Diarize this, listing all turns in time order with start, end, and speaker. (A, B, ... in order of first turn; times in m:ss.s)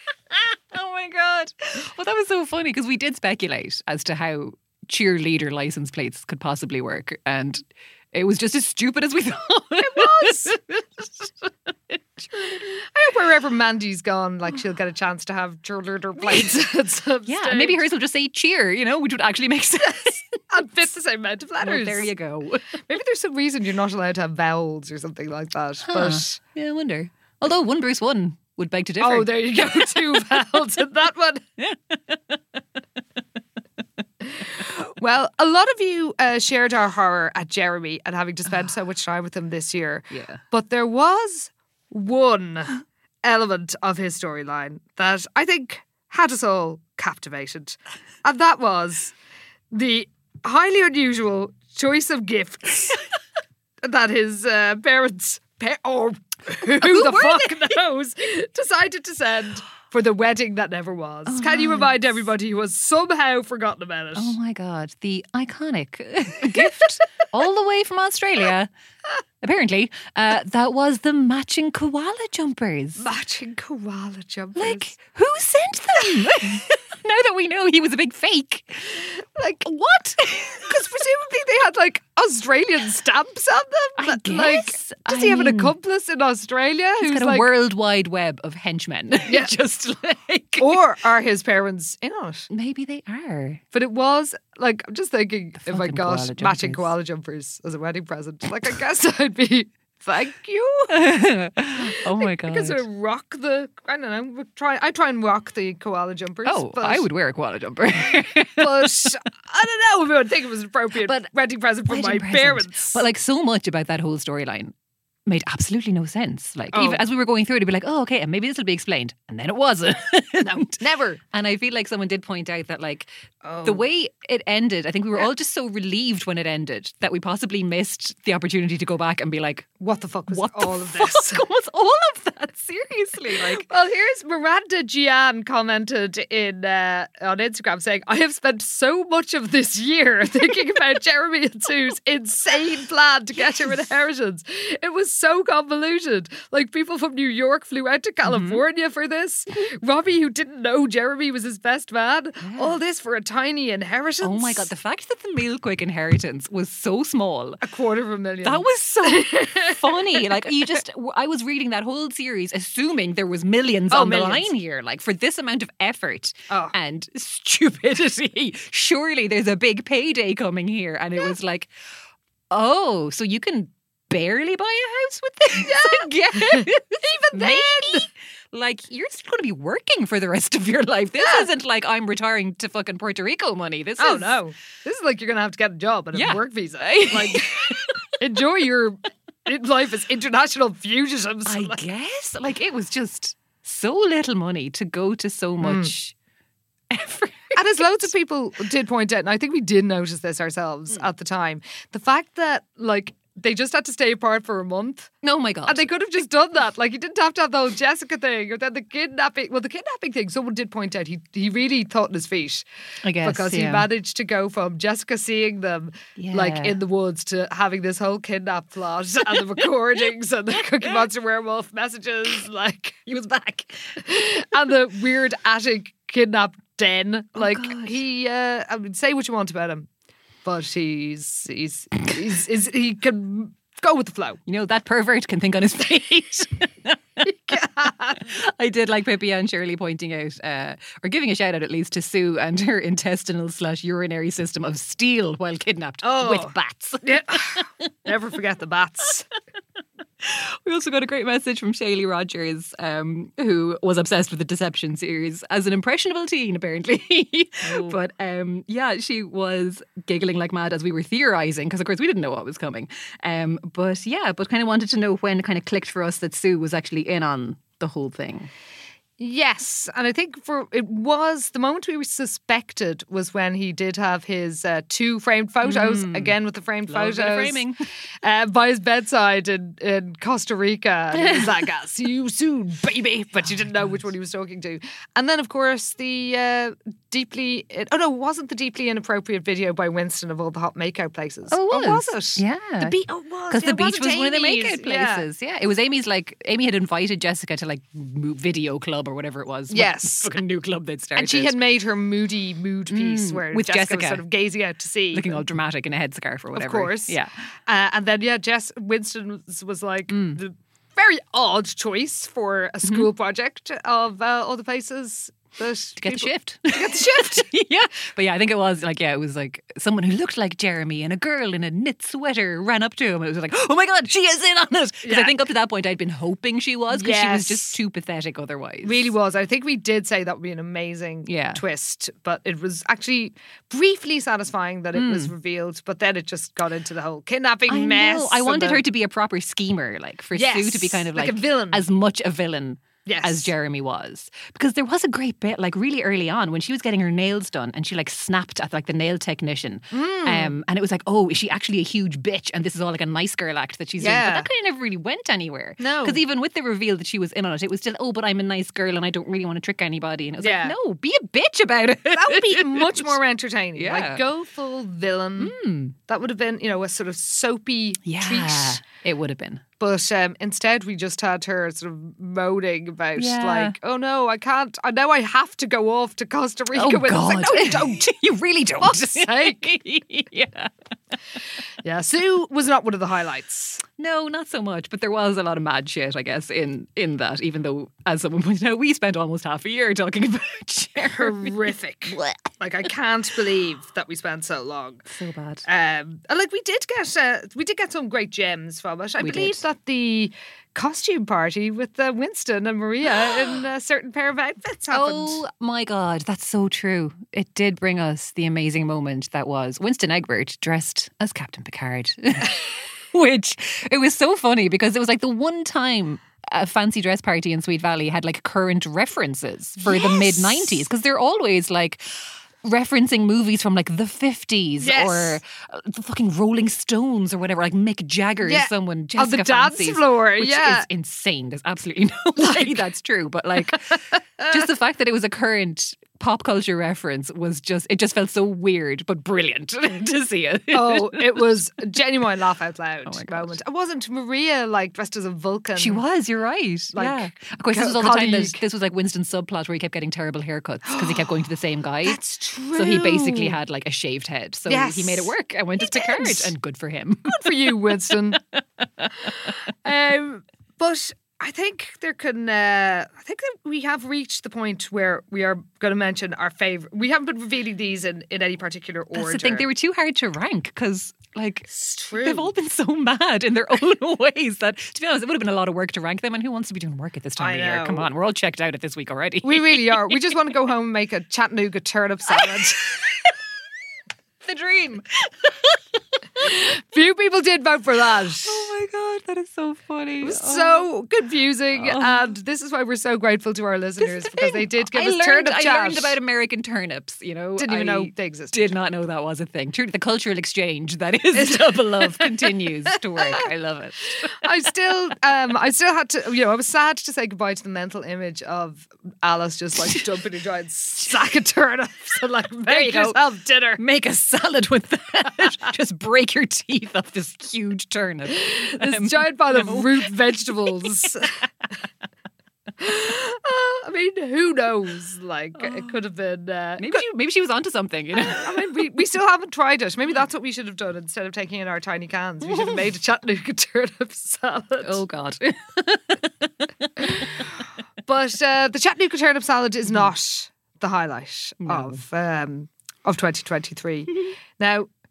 0:00.3-0:11.2 A
0:09.8-0:10.6 B
0:12.2-0:12.8 A
0:12.8-0:17.8 B
0:16.2-0:16.5 A
0:17.2-0:20.4 A
0:20.5-0:22.1 B
0:21.6-0:22.8 A
0:22.9-0:26.4 B
0:25.8-0:30.2 A
0:29.0-0:31.4 B
0:31.6-0:32.4 A
0:34.6-0:49.1 B
0:40.1-0:40.4 A
0:49.7-0:53.0 B
0:53.8-1:04.3 B
0:56.6-0:57.8 A
1:01.2-1:02.0 A
1:04.1-1:08.7 A
1:09.4-1:13.0 A
1:13.0-1:14.9 B
1:14.5-1:19.0 A
1:19.3-1:19.6 B
1:19.6-1:20.8 A
1:20.6-1:27.5 B
1:24.0-1:25.7 A
1:27.0-1:30.8 A
1:29.3-1:29.5 B
1:30.6-1:32.5 B
1:32.5-1:33.6 A
1:33.7-1:41.0 B
1:35.6-1:36.9 A
1:40.9-1:42.8 A
1:42.1-1:47.1 B
1:46.4-1:49.1 A
1:48.6-1:53.0 B
1:51.0-1:51.3 A
1:51.8-1:54.7 A
1:55.2-2:03.1 A
1:56.7-1:57.0 B
2:00.4-2:01.2 B
2:03.4-2:03.8 B
2:03.6-2:09.7 A
2:09.8-2:11.4 B
2:10.3-2:13.6 A
2:13.4-2:34.7 B
2:28.2-2:28.6 A
2:32.4-2:32.8 A
2:34.2-2:37.6 A
2:37.6-2:40.2 B
2:38.4-2:51.7 A
2:43.9-2:44.5 B
2:46.5-2:46.7 B
2:52.5-3:04.4 A
2:55.6-2:58.1 B
3:01.2-3:01.5 B
3:04.0-3:11.8 B
3:06.1-3:07.9 A
3:11.4-3:16.1 A
3:15.6-3:15.9 B
3:16.9-3:18.1 A
3:17.5-3:25.1 B
3:25.2-3:25.9 A
3:25.6-3:32.6 B
3:33.0-3:33.9 A
3:33.2-3:43.1 B
3:36.2-3:36.8 A
3:39.4-3:39.6 A
3:40.8-3:41.0 A
3:43.1-3:44.0 A
3:44.0-3:49.9 B
3:47.3-3:48.0 A
3:50.4-3:54.4 B
3:54.5-3:57.3 A
3:57.3-3:58.2 B
3:58.2-4:07.7 A
4:06.0-4:09.3 B
4:10.2-4:28.5 A
4:17.6-4:18.0 B
4:29.2-4:37.6 B
4:35.6-4:36.4 A
4:36.9-4:37.8 A
4:38.2-4:55.2 B
4:41.1-4:41.6 A
4:43.5-4:44.0 A
4:51.5-4:53.0 A
4:53.5-5:01.6 A
4:59.7-5:00.3 B
5:01.2-5:05.4 B
5:02.9-5:04.2 A
5:05.1-5:07.3 A
5:06.5-5:07.2 B
5:07.7-5:17.5 B
5:10.1-5:10.4 A
5:12.8-5:13.1 A
5:16.0-5:29.1 A
5:25.0-5:25.3 B
5:26.9-5:27.8 B
5:28.8-5:38.8 B
5:31.2-5:31.6 A
5:34.9-5:35.3 A
5:37.7-6:03.2 A
5:40.3-5:41.8 B
5:43.0-5:43.5 B
5:49.9-5:50.6 B
5:54.0-5:54.5 B
5:55.8-5:56.2 B
6:00.4-6:00.8 B
6:02.1-6:05.5 B
6:03.8-6:04.2 A
6:05.4-6:06.0 A
6:06.1-6:08.8 B
6:08.0-6:09.6 A
6:09.8-6:18.1 B
6:13.2-6:13.8 A
6:16.7-6:20.7 A
6:18.8-6:19.7 B
6:21.8-6:23.8 B
6:24.0-6:32.5 A
6:31.1-6:35.0 B
6:35.1-6:35.7 A
6:35.6-6:45.4 B
6:39.2-6:39.6 A
6:44.9-6:52.6 A
6:53.1-7:02.1 A
6:59.8-7:00.8 B
7:02.6-7:21.5 A
7:04.8-7:05.4 B
7:08.4-7:10.8 B
7:12.4-7:12.8 B
7:20.7-7:26.0 B
7:23.0-7:23.6 A
7:25.8-7:32.2 A
7:26.9-7:28.6 B
7:30.8-7:31.4 B
7:32.0-7:33.6 B
7:32.7-7:39.5 A
7:34.7-7:36.5 B
7:37.3-7:38.4 B
7:39.4-7:49.7 B
7:49.1-8:00.2 A
7:51.7-7:52.5 B
7:57.4-7:58.1 B
7:59.4-8:02.9 B
8:02.3-8:03.3 A
8:04.4-8:05.8 A
8:06.4-8:08.7 B
8:08.4-8:10.9 A
8:10.2-8:16.2 B
8:11.7-8:12.3 A
8:14.0-8:24.3 A
8:17.6-8:18.7 B
8:21.3-8:22.5 B
8:23.2-8:23.4 B
8:24.4-8:33.8 B
8:32.6-8:33.2 A
8:33.8-8:41.1 A
8:38.3-8:41.3 B
8:42.8-8:47.0 B
8:45.6-8:46.0 A
8:46.8-8:48.7 A
8:48.2-8:55.0 B
8:52.5-8:52.7 A
8:54.8-8:57.4 A
8:58.0-9:04.9 B
9:01.6-9:02.0 A